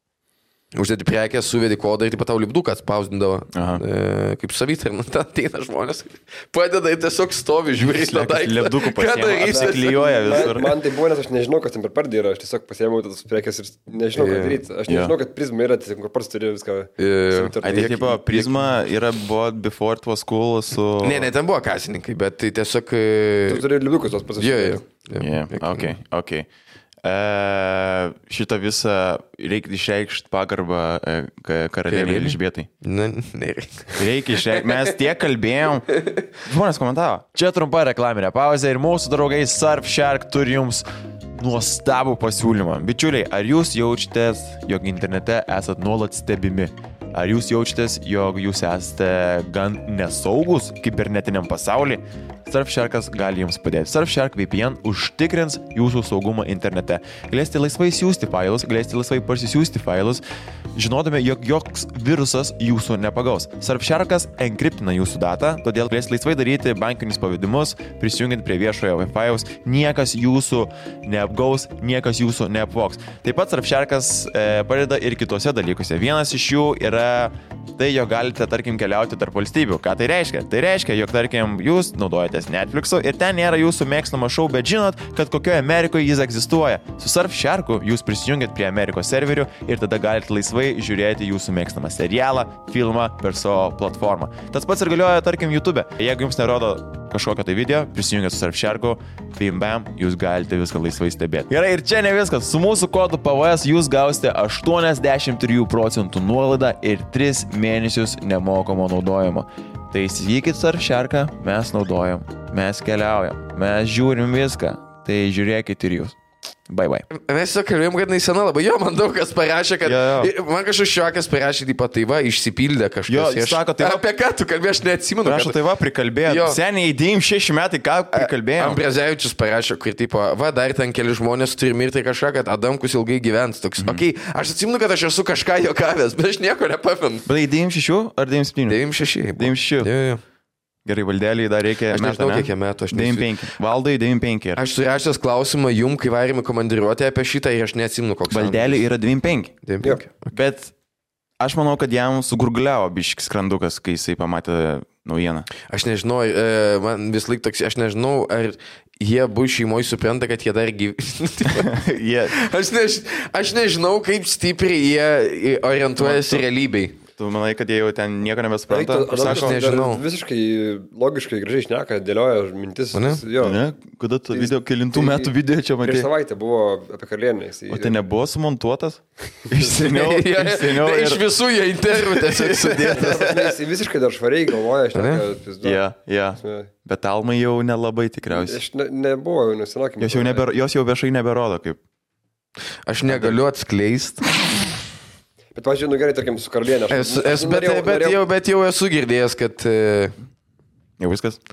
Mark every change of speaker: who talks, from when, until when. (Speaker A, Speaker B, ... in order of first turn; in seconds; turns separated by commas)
Speaker A: 0.7-10.6, Speaker B: 3.5-3.8, Speaker B: 7.8-10.7, Speaker C: 9.5-18.1, Speaker A: 14.2-14.6, Speaker B: 14.9-15.1, Speaker A: 17.0-18.6, Speaker B: 17.6-21.3, Speaker A: 21.0-23.6, Speaker C: 23.5-24.8, Speaker A: 24.4-25.9, Speaker B: 25.2-26.5, Speaker B: 27.0-32.7, Speaker A: 31.9-34.9, Speaker B: 34.0-60.2, Speaker B: 60.7-116.2, Speaker B: 116.7-117.1, Speaker A: 117.1-125.6, Speaker B: 119.8-120.3, Speaker B: 123.1-124.0, Speaker B: 125.2-128.8, Speaker A: 126.2-126.6, Speaker A: 128.1-137.2, Speaker B: 133.8-134.1, Speaker B: 137.2-138.8, Speaker A: 138.7-140.2, Speaker B: 139.4-139.9, Speaker B: 140.8-144.6, Speaker A: 141.9-143.3, Speaker A: 144.6-148.8, Speaker B: 148.3-149.6, Speaker A: 149.6-150.3, Speaker B: 150.3-150.7, Speaker B: 151.4-155.5, Speaker A: 155.7-167.0, Speaker B: 161.4-162.4, Speaker B: 166.0-166.4, Speaker B: 167.1-169.6, Speaker C: 168.7-173.6, Speaker A: 169.2-170.0, Speaker A: 172.9-173.2, Speaker B: 173.4-176.1, Speaker C: 174.3-177.9, Speaker B: 177.7-181.3, Speaker A: 179.8-183.4, Speaker B: 181.9-183.5, Speaker C: 182.9-185.8, Speaker A: 184.9-185.2, Speaker B: 185.6-188.6, Speaker C: 186.4-186.7, Speaker C: 188.3-190.4, Speaker B: 190.0-191.8, Speaker A: 192.8-194.2, Speaker B: 193.1-193.4, Speaker C: 195.5-198.2, Speaker A: 196.9-200.1, Speaker B: 201.0-201.4